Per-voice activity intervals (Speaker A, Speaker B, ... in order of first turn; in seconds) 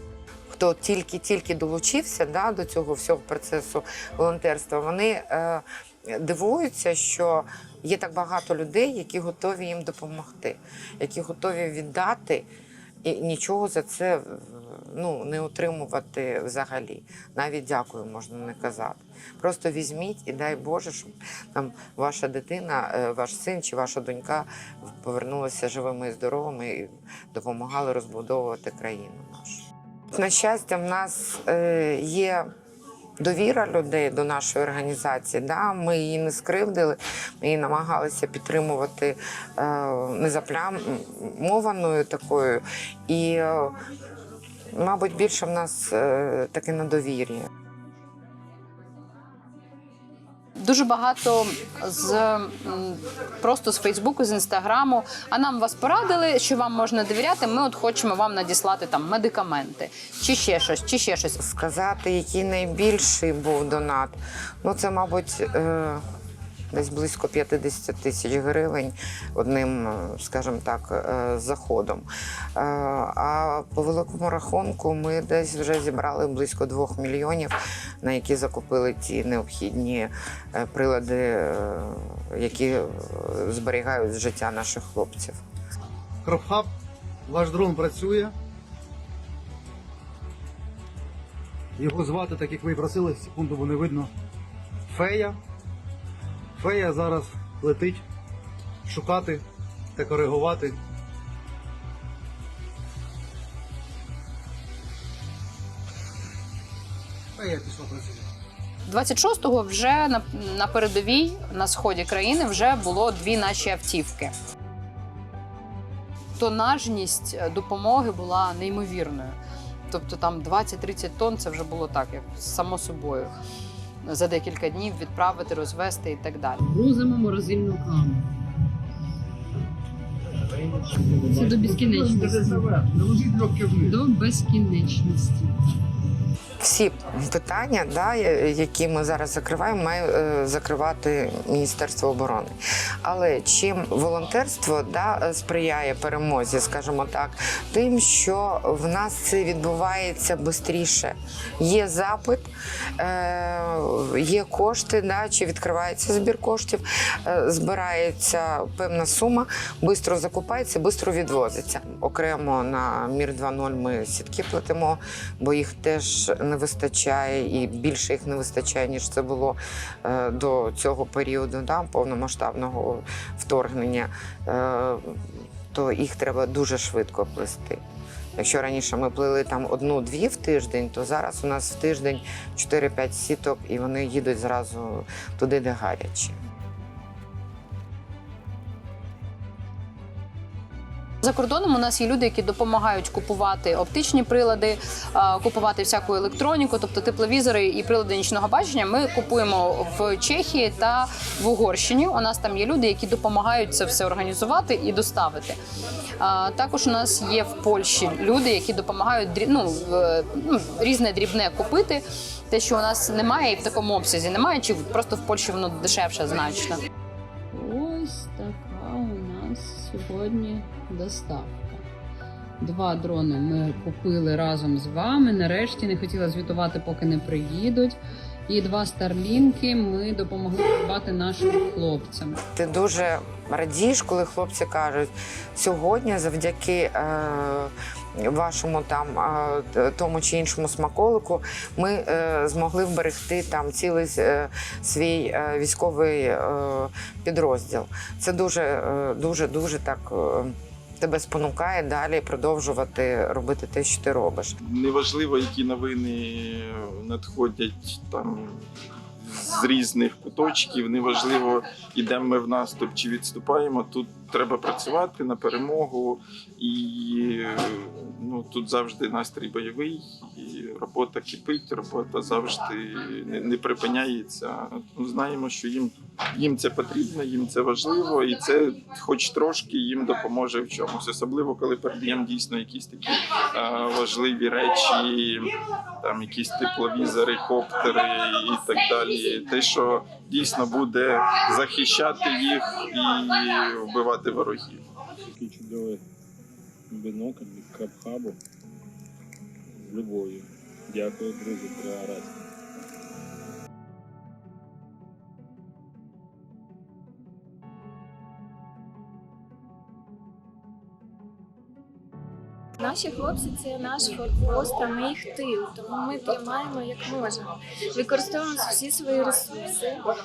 Speaker A: 0.5-12.4, 13.0-32.5, 33.2-43.8, 44.7-47.5, 61.4-66.0, 66.7-85.4, 136.6-177.8, 178.3-186.4, 232.6-254.6
Speaker B: 50.6-61.4, 108.9-114.3, 116.4-119.4, 119.9-123.3, 124.0-126.6, 191.2-205.6, 206.2-216.8
Speaker C: 86.2-86.7, 87.3-88.3, 91.8-94.1, 94.9-95.4, 96.6-98.0, 98.8-99.4, 100.0-100.8, 107.3-108.3
Speaker D: 126.6-128.3, 131.1-135.6, 217.5-221.8, 222.6-228.0, 228.5-232.4
Speaker E: 254.6-258.6, 259.2-294.8
Speaker F: 295.4-296.0, 296.9-298.4, 299.8-302.3
Speaker G: 312.8-320.0